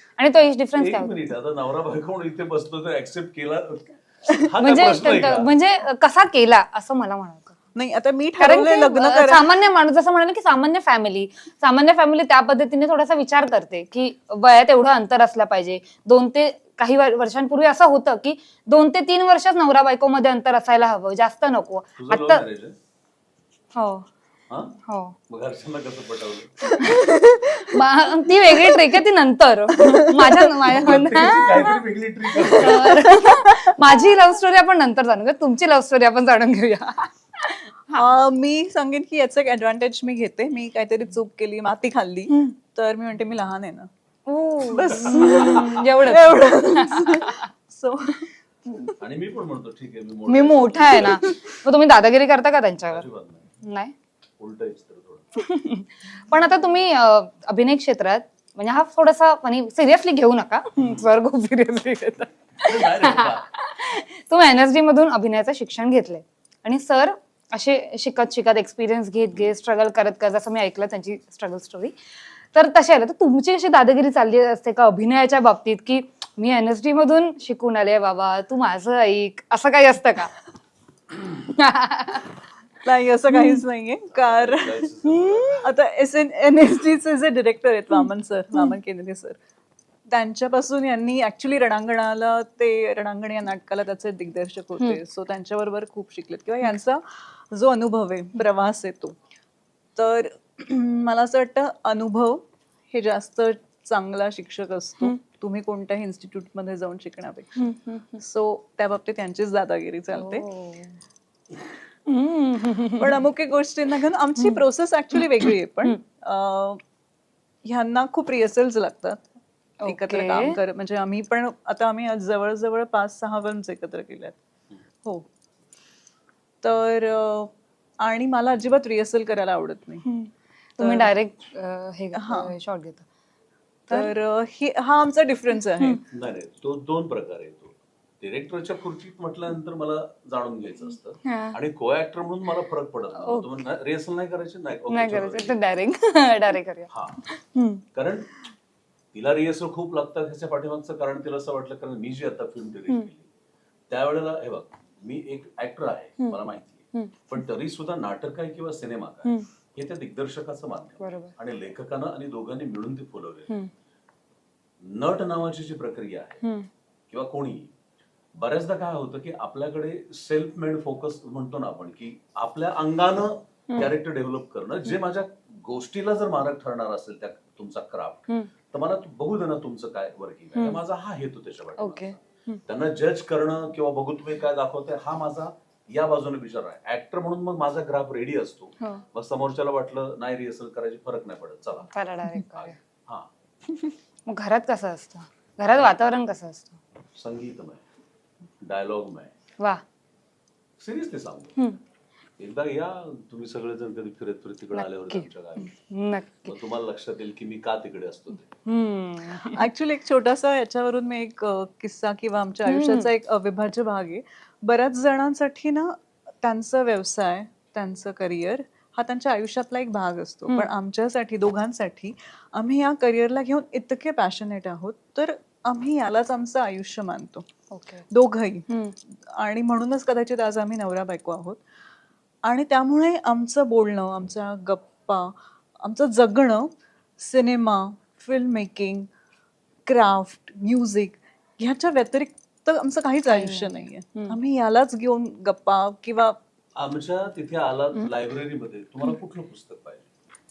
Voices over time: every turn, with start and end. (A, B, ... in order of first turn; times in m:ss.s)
0:00.2-0:01.2 A
0:00.8-0:05.5 B
0:04.6-0:07.6 A
0:07.8-0:09.5 C
0:08.4-0:22.4 A
0:22.0-0:22.8 B
0:23.8-0:24.1 A
0:24.5-0:24.8 B
0:24.9-0:25.2 A
0:25.3-0:26.6 B
0:26.6-0:29.0 C
0:26.8-0:27.1 A
0:27.6-0:31.8 A
0:29.7-0:31.4 C
0:30.6-0:33.0 B
0:32.4-0:34.1 C
0:32.4-0:38.0 A
0:37.9-0:43.9 C
0:44.3-0:47.5 A
0:44.6-0:48.3 C
0:49.0-0:51.2 B
0:50.3-0:53.1 A
0:50.9-0:51.4 C
0:52.9-0:53.5 B
0:53.6-0:53.9 A
0:54.4-0:55.3 B
0:55.4-1:12.0 A
1:00.8-1:01.1 B
1:02.6-1:03.5 B
1:12.5-1:20.3 A
1:21.2-1:22.3 A
1:22.8-1:29.4 C
1:23.3-1:23.6 A
1:24.1-1:25.8 B
1:27.9-1:28.7 A
1:30.1-1:39.2 C
1:40.0-1:47.6 C
1:47.6-1:48.2 A
1:48.2-1:50.5 C
1:50.1-1:51.0 A
1:52.1-1:53.2 A
1:53.0-1:56.8 C
1:55.2-1:56.0 A
1:57.6-1:59.3 C
1:59.8-2:00.6 A
1:59.8-2:04.4 C
2:06.6-2:10.0 C
2:10.0-2:13.0 A
2:10.8-2:11.1 C
2:12.1-2:12.5 C
2:13.9-2:16.0 C
2:15.6-2:16.0 A
2:16.1-2:25.6 B
2:21.2-2:21.6 A
2:23.2-2:23.5 A
2:24.9-2:27.8 A
2:26.9-2:27.2 B
2:27.9-2:28.3 B
2:29.1-2:33.3 B
2:33.9-2:43.5 B
2:36.2-2:36.4 A
2:41.0-2:41.3 A
2:44.8-2:46.4 B
2:46.4-2:46.7 A
2:47.1-2:47.7 B
2:48.4-3:13.3 B
3:00.6-3:00.8 A
3:01.8-3:02.6 A
3:11.9-3:12.8 A
3:14.3-3:16.8 A
3:17.2-3:17.8 B
3:18.6-3:19.3 B
3:20.8-3:21.6 B
3:22.4-3:25.7 B
3:24.7-3:26.6 A
3:26.4-3:28.5 B
3:28.6-3:29.7 A
3:29.4-3:47.4 C
3:32.6-3:33.1 A
3:47.7-3:48.1 A
3:48.1-3:51.6 C
3:48.7-3:49.0 A
3:52.5-3:59.1 C
3:59.9-4:06.4 C
4:03.3-4:04.4 A
4:06.8-4:10.1 B